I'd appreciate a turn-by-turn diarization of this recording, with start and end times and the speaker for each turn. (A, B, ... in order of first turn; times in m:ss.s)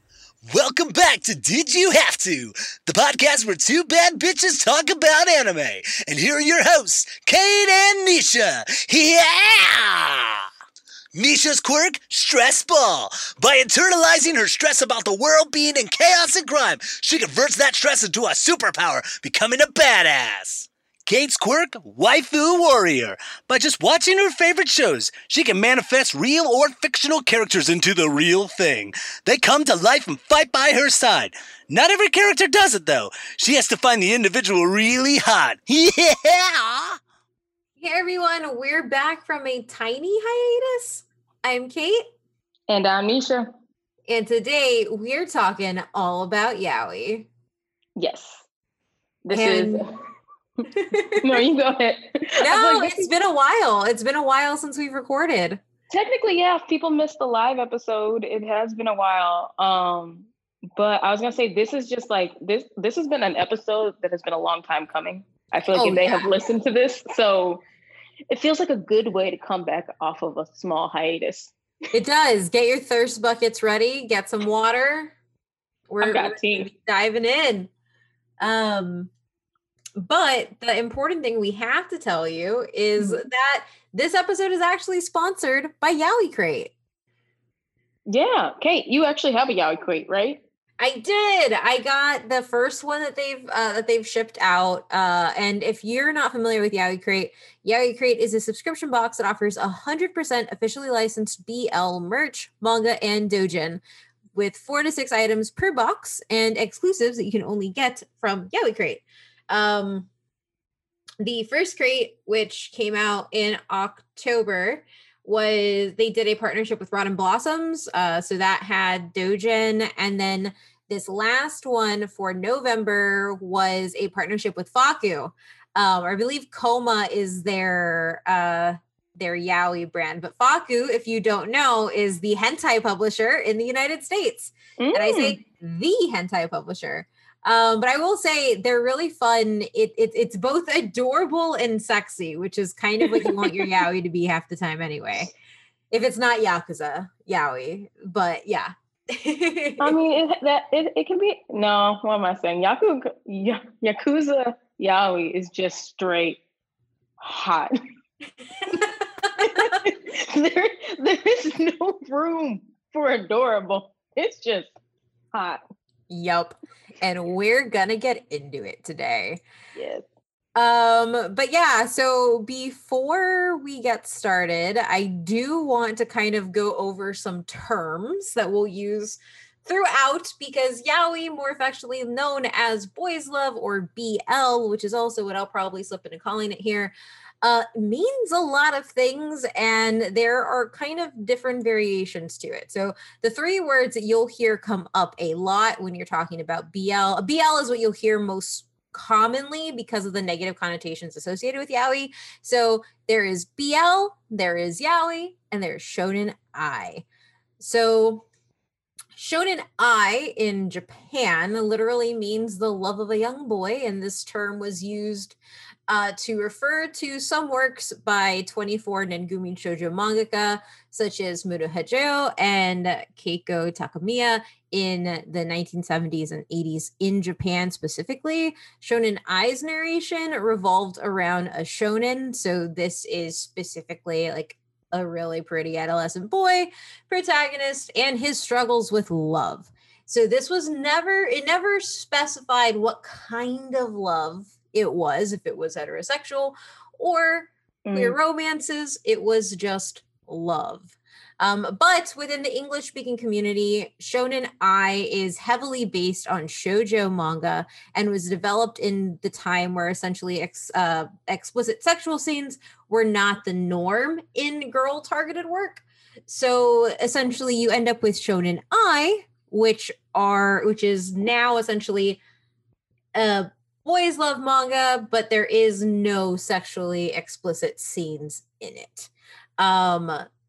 0:00.4-0:10.4 A
0:11.1-0:36.9 A
0:37.8-0:42.1 B
0:42.7-0:43.5 C
0:44.1-0:47.3 B
0:48.0-0:48.4 C
0:49.2-0:49.9 C
0:49.3-0:49.8 B
0:50.7-0:51.4 B
0:51.2-0:53.1 C
0:52.4-0:55.6 B
0:55.9-1:07.6 C
1:05.7-1:06.2 B
1:08.3-1:11.5 C
1:11.9-1:15.1 B
1:15.9-1:17.7 B
1:16.0-1:16.7 C
1:18.4-1:19.1 B
1:20.0-1:26.7 B
1:23.0-1:23.2 C
1:28.1-1:30.4 C
1:30.8-1:43.8 B
1:44.3-1:50.1 B
1:51.2-2:25.3 B
2:14.8-2:15.4 C
2:23.2-2:23.5 C
2:25.9-2:30.0 B
2:29.8-2:36.4 C
2:37.2-2:37.7 C
2:39.4-2:44.7 C
2:45.3-2:45.6 C
2:46.1-2:49.4 B
2:49.7-2:50.0 C
2:50.5-3:27.0 B
3:27.6-3:28.2 B
3:29.2-4:32.2 B
4:07.8-4:08.2 C
4:33.1-4:40.3 B